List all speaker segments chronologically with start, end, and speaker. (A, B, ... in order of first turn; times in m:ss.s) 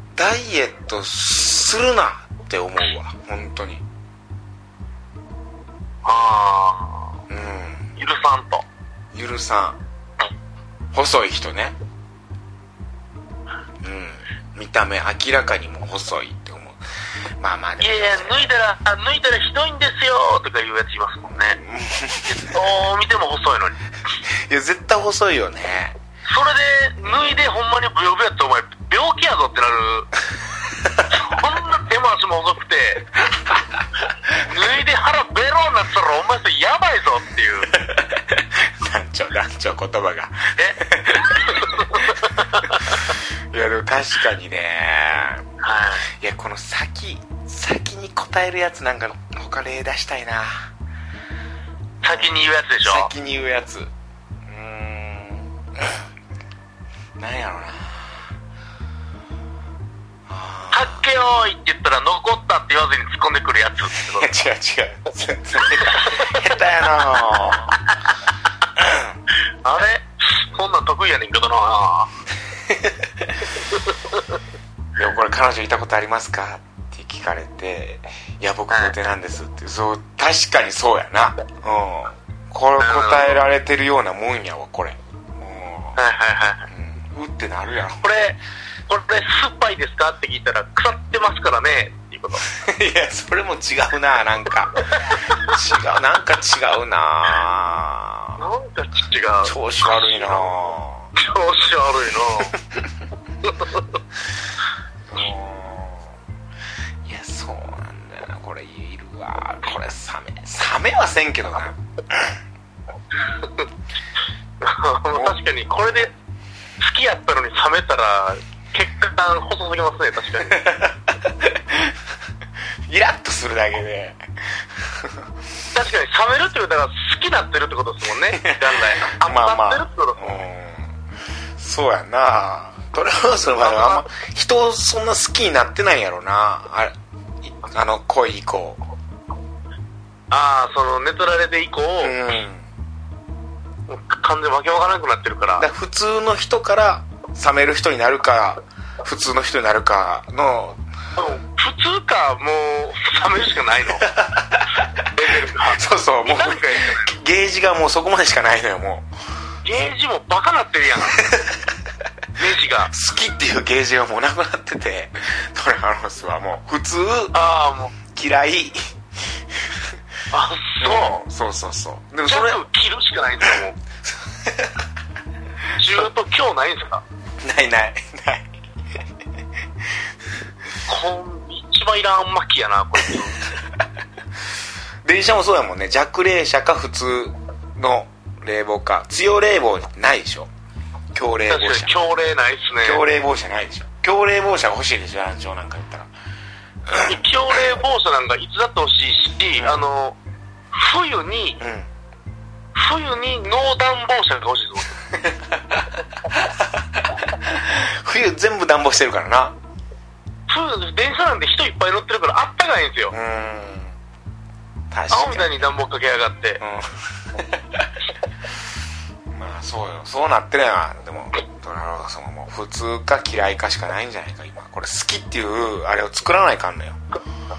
0:00.1-0:03.8 A
0:06.0-0:07.1 B
0:07.3-0:08.0 A
0:08.0-0:08.6 B
0:09.1-0:09.8 A
0:10.9-0:11.8 A
0:13.8-0:16.8 A
0:17.4-0:18.5 A
0:17.8-0:21.6 B
0:21.5-0:22.6 A
0:22.2-0:23.8 B
0:24.5-0:25.9 A
0:26.3-0:30.1 B
0:27.1-0:27.4 A
0:31.1-0:33.1 B
0:34.4-0:37.7 B
0:37.8-0:45.4 A
0:41.4-0:42.9 B
0:45.6-0:46.0 B
0:46.1-0:50.7 A
0:52.0-0:53.1 B
0:52.0-0:53.9 A
0:54.5-0:56.0 A
0:57.2-0:58.2 A
1:00.3-1:01.0 A
1:00.7-1:04.3 B
1:04.1-1:07.8 A
1:05.8-1:06.4 B
1:08.8-1:09.1 A
1:09.6-1:12.1 B
1:12.7-1:13.4 A
1:13.7-1:14.2 B
1:15.0-1:26.0 A
1:22.8-1:23.4 B
1:26.0-1:26.7 B
1:26.7-1:28.1 A
1:28.0-1:32.4 B
1:32.5-1:38.4 A
1:38.4-1:40.5 B
1:39.4-1:41.1 A
1:41.2-1:42.5 B
1:42.5-1:42.9 A
1:43.4-1:43.9 B
1:45.1-1:46.1 A
1:47.0-1:52.4 A
1:53.4-1:53.7 B
1:54.6-1:56.1 B
1:55.1-1:55.4 A
1:56.8-2:00.6 B
2:00.5-2:01.9 A
2:02.9-2:04.2 A
2:04.9-2:05.2 A
2:05.7-2:10.3 B
2:08.3-2:10.9 A
2:11.6-2:18.8 A
2:13.6-2:14.0 B
2:20.3-2:22.2 B
2:22.0-2:22.7 A
2:23.9-2:25.6 B
2:25.6-2:30.8 A
2:31.2-2:34.0 B
2:34.0-2:35.0 A
2:35.0-2:37.1 B
2:35.6-2:39.1 A
2:39.6-2:41.2 B
2:41.2-2:41.6 A
2:42.4-2:42.9 B
2:42.9-2:47.4 A
2:47.3-2:47.9 B
2:48.1-2:48.9 A
2:50.3-2:51.2 B
2:50.8-2:52.6 A
2:52.3-2:53.8 B
2:54.0-2:54.8 A
2:55.8-2:57.0 B
2:57.4-2:58.5 A
3:00.9-3:03.4 B
3:05.0-3:10.5 A
3:11.1-3:12.0 A
3:11.5-3:13.0 B
3:12.8-3:16.1 A
3:16.9-3:17.7 A
3:17.0-3:20.2 B
3:19.6-3:19.8 A
3:20.7-3:21.6 B
3:21.6-3:21.9 A
3:22.7-3:24.9 B
3:25.2-3:29.5 A
3:30.5-3:33.1 B
3:33.1-3:33.9 A
3:34.9-3:35.6 A
3:35.1-3:36.6 B
3:36.6-3:37.9 A
3:39.3-3:47.0 A